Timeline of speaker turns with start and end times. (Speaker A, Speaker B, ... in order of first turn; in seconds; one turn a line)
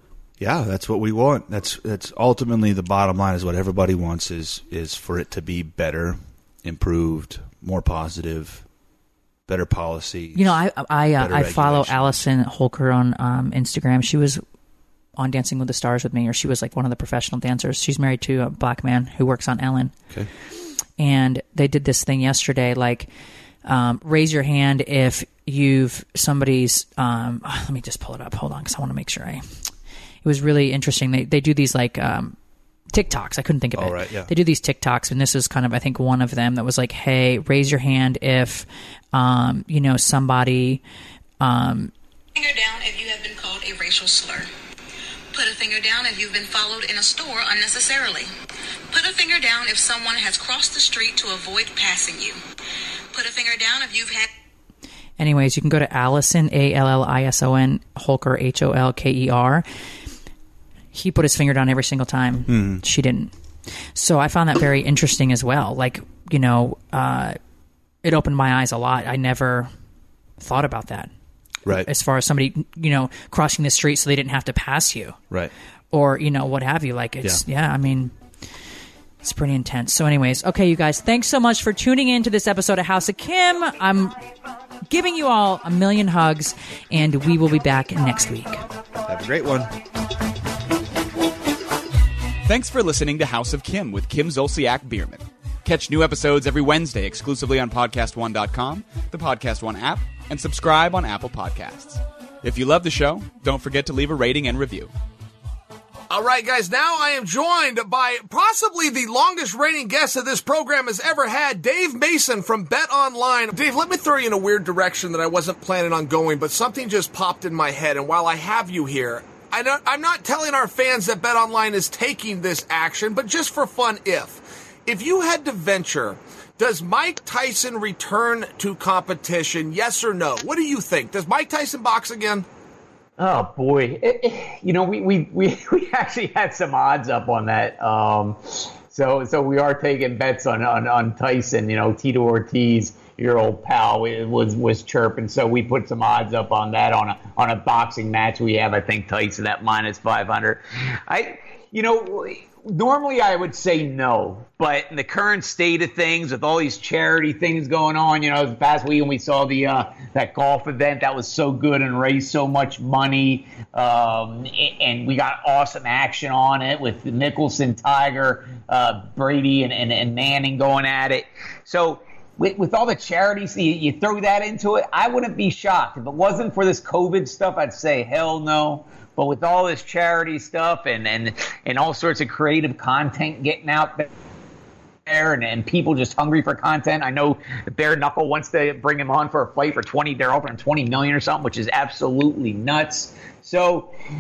Speaker A: 0.4-8.6
Speaker A: 9.5-10.6
Speaker B: 10.3-14.4
Speaker A: 11.2-12.3
Speaker B: 15.2-19.9
Speaker B: 21.0-23.1
Speaker B: 23.6-29.4
Speaker B: 30.2-32.4
Speaker B: 32.9-40.8
Speaker A: 33.7-34.3
Speaker B: 41.4-41.9
Speaker C: 42.4-44.5
Speaker C: 45.3-48.3
Speaker C: 48.9-52.4
Speaker C: 53.1-54.3
Speaker B: 55.2-59.6
Speaker B: 60.9-63.3
Speaker A: 62.5-62.8
Speaker B: 64.0-67.4
Speaker B: 68.0-69.7
Speaker B: 70.4-71.1
Speaker B: 71.7-75.2
Speaker B: 75.9-78.1
Speaker B: 79.2-84.2
Speaker B: 84.9-88.6
Speaker A: 89.0-89.7
Speaker D: 92.5-104.9
Speaker E: 106.1-132.4
Speaker F: 133.2-184.1
Speaker F: 185.1-193.9